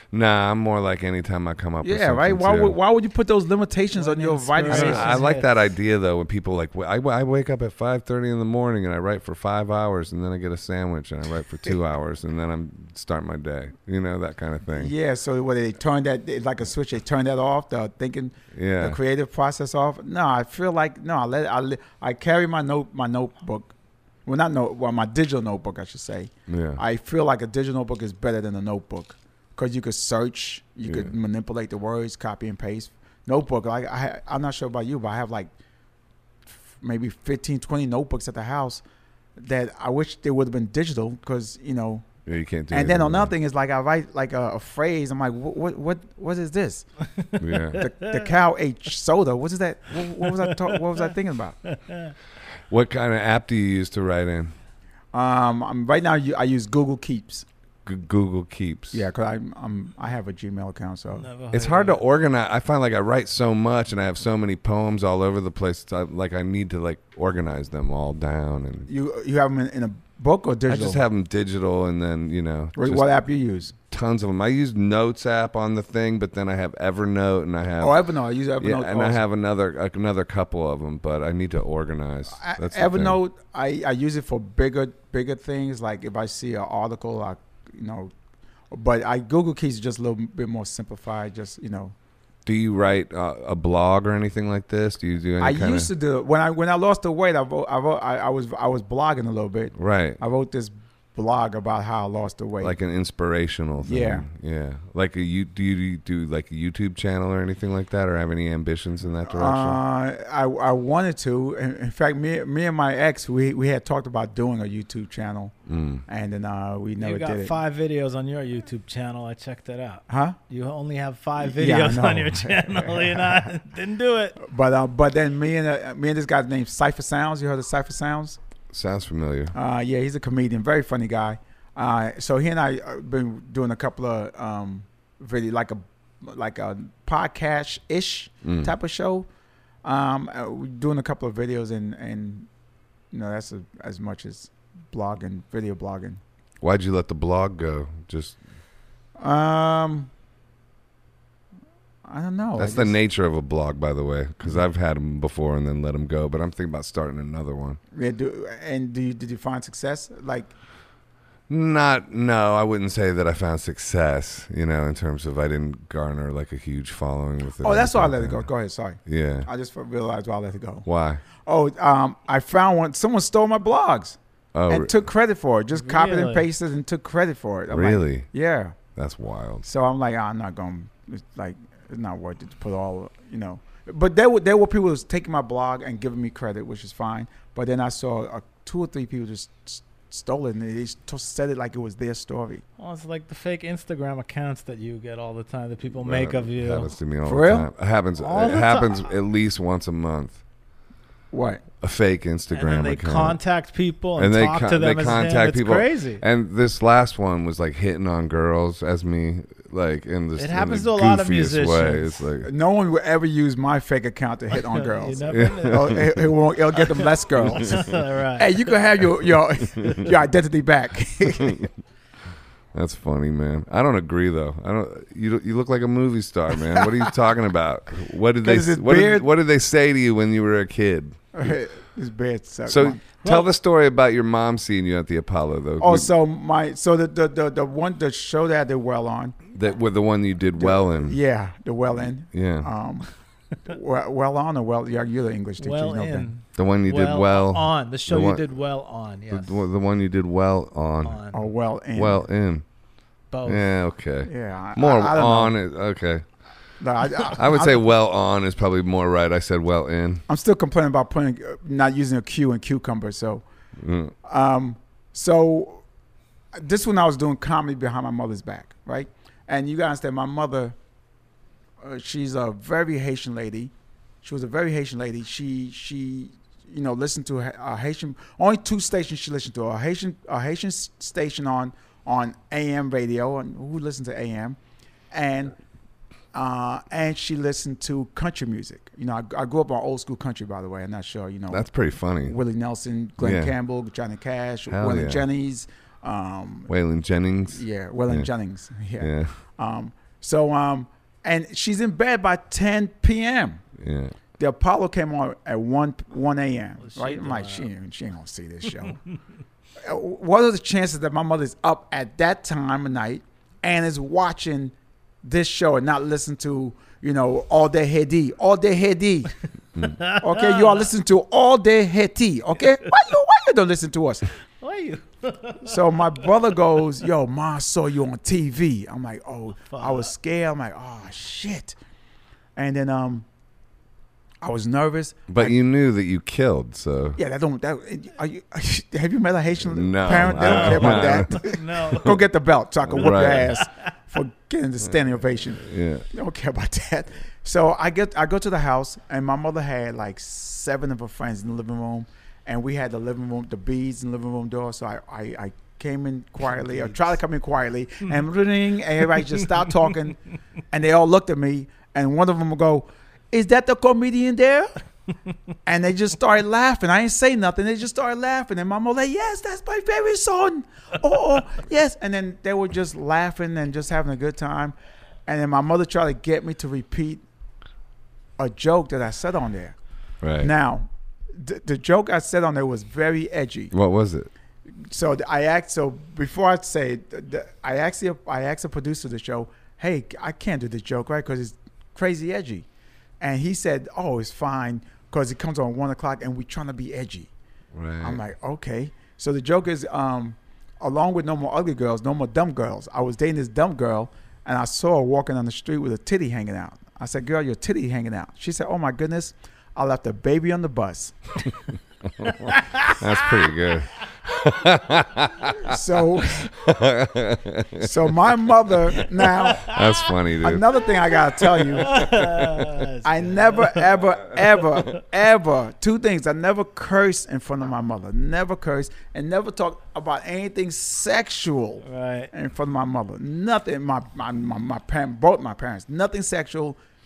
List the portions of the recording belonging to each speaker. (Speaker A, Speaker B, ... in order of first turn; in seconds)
Speaker A: 0.1-2.8, 4.7-14.9, 18.5-19.0, 26.5-26.8, 30.9-31.1, 42.2-43.3, 47.4-47.8, 52.7-54.5, 57.9-59.0, 61.5-68.9, 70.7-73.1, 73.8-78.0, 78.6-83.2, 92.5-95.9, 99.7-100.2, 102.6-109.8, 115.7-116.0, 128.7-129.5, 138.4-138.7, 146.6-148.4, 152.6-157.8, 161.5-168.5, 169.1-169.5, 170.8-171.2, 174.5-174.9, 177.7-178.3, 178.9-179.6, 195.9-200.4, 201.8-203.4, 204.2-212.5, 215.3-216.3, 217.4-217.9, 221.4-221.7, 222.7-231.5, 232.7-236.1, 239.5-241.2, 242.3-242.7, 246.5-248.4, 249.3-251.2, 251.9-252.6, 253.4-256.2, 257.2-260.2, 263.8-264.1, 291.5-292.4, 293.2-293.5, 294.7-295.2, 296.7-298.3, 299.0-299.3, 303.8-304.2, 335.3-337.2, 339.6-341.4, 342.9-343.6, 345.6-346.1, 380.2-380.5, 383.7-384.3, 397.7-398.2, 412.2-415.8, 416.5-418.1, 419.6-420.6, 421.6-422.8
Speaker B: 1.8-5.2, 14.8-23.7, 24.2-35.5, 36.7-38.8, 39.4-42.0, 42.7-46.9, 47.8-51.6, 55.1-57.4, 58.9-61.3, 68.9-71.0, 72.8-73.7, 77.8-79.2, 82.3-88.1, 88.7-91.9, 95.4-102.8, 103.8-104.2, 109.3-115.5, 116.1-117.5, 120.1-120.4, 121.4-123.5, 124.4-128.4, 129.5-139.3, 139.8-142.5, 143.1-146.2, 149.2-150.1, 152.0-152.9, 157.9-160.5, 167.6-174.2, 174.7-178.8, 179.6-192.6, 197.2-197.7, 201.3-201.6, 212.4-221.7, 226.7-227.1, 228.4-229.2, 231.3-233.0, 235.8-239.4, 240.6-243.1, 243.6-246.3, 251.3-252.2, 254.2-255.5, 256.8-257.8, 260.3-263.4, 264.2-265.8, 266.5-270.7, 271.8-273.7, 274.2-284.6, 285.1-285.5, 286.3-291.6, 292.2-296.7, 297.5-303.6, 304.4-309.0, 309.8-319.4, 320.0-324.3, 325.6-331.8, 332.6-333.2, 334.4-335.5, 337.2-360.2, 360.7-364.7, 365.6-374.7, 375.3-377.2, 378.4-379.8, 380.4-383.7, 384.8-392.6, 393.2-397.3, 398.0-411.2, 415.6-416.5, 417.8-419.7, 420.4-422.1, 423.0-436.8
Speaker C: 3.9-5.5, 47.2-48.3, 50.2-51.1, 51.6-52.1, 61.1-62.0, 117.0-124.4, 175.7-176.5, 192.8-196.9, 198.2-199.1, 202.5-206.2, 210.4-212.3, 214.5-218.8, 233.2-233.5, 245.6-249.6, 251.0-251.5, 253.3-253.7, 306.8-307.7, 319.8-320.9, 324.6-326.3, 329.7-330.1, 340.4-342.2, 343.0-343.7, 356.5-357.1, 412.4-412.9, 419.3-420.1, 421.7-425.0, 431.8-432.3